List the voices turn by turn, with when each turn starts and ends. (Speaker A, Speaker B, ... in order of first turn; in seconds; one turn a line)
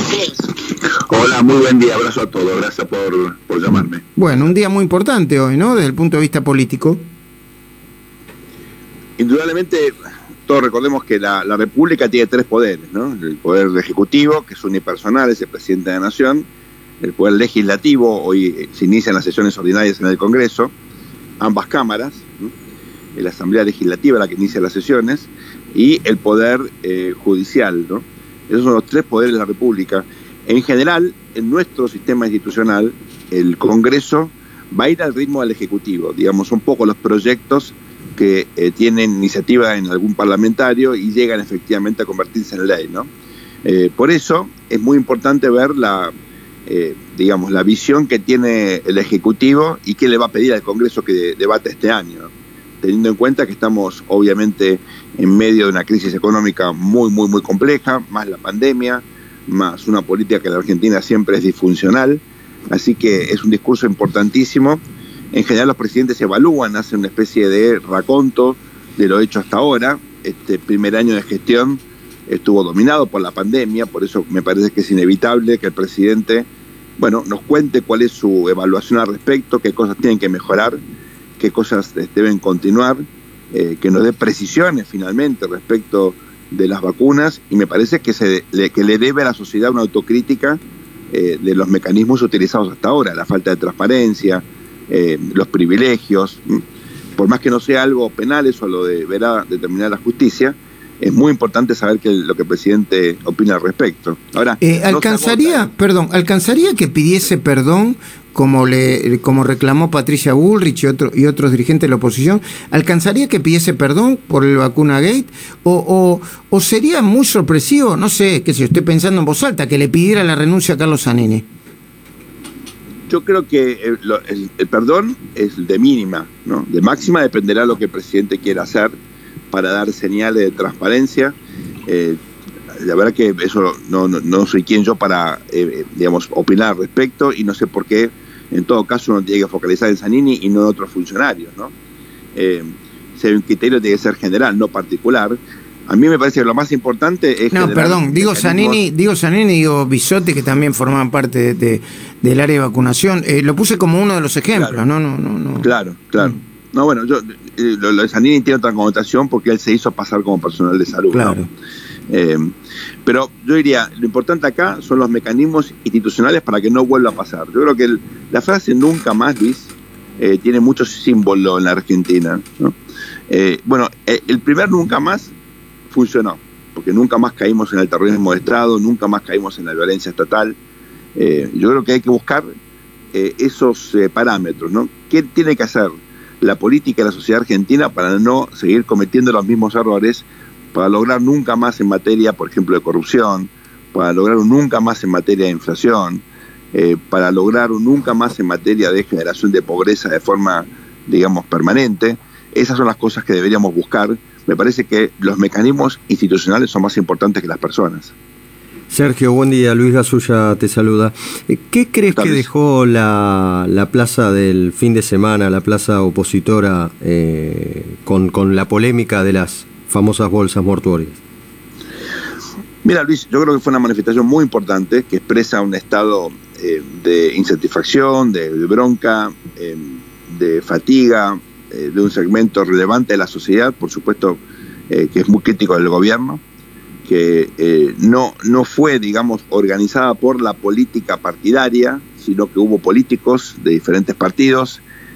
Speaker A: 0.1-0.4
Speaker A: 0.9-4.0
Speaker B: 4.1-7.0
Speaker A: 9.2-9.9
Speaker A: 10.5-16.5
Speaker A: 17.0-20.7
Speaker A: 21.4-22.5
Speaker A: 23.1-43.1
Speaker A: 43.6-46.1
Speaker A: 46.7-80.8
Speaker A: 81.4-96.6
Speaker A: 97.2-105.7
Speaker B: 104.6-121.5
Speaker A: 123.1-128.9
Speaker A: 129.5-131.4
Speaker A: 131.9-132.2
Speaker A: 132.8-141.7
Speaker A: 142.3-148.8
Speaker B: 147.5-155.7
Speaker A: 154.5-154.8
Speaker A: 155.6-161.4
Speaker B: 161.1-161.5
Speaker A: 162.1-162.5
Speaker A: 163.1-172.8
Speaker A: 173.3-175.3
Speaker A: 175.9-180.6
Speaker A: 181.2-182.5
Speaker A: 183.1-185.9
Speaker A: 186.4-208.1
Speaker C: 208.9-221.2
Speaker A: 212.1-212.5
Speaker A: 222.8-236.4
Speaker A: 237.1-244.8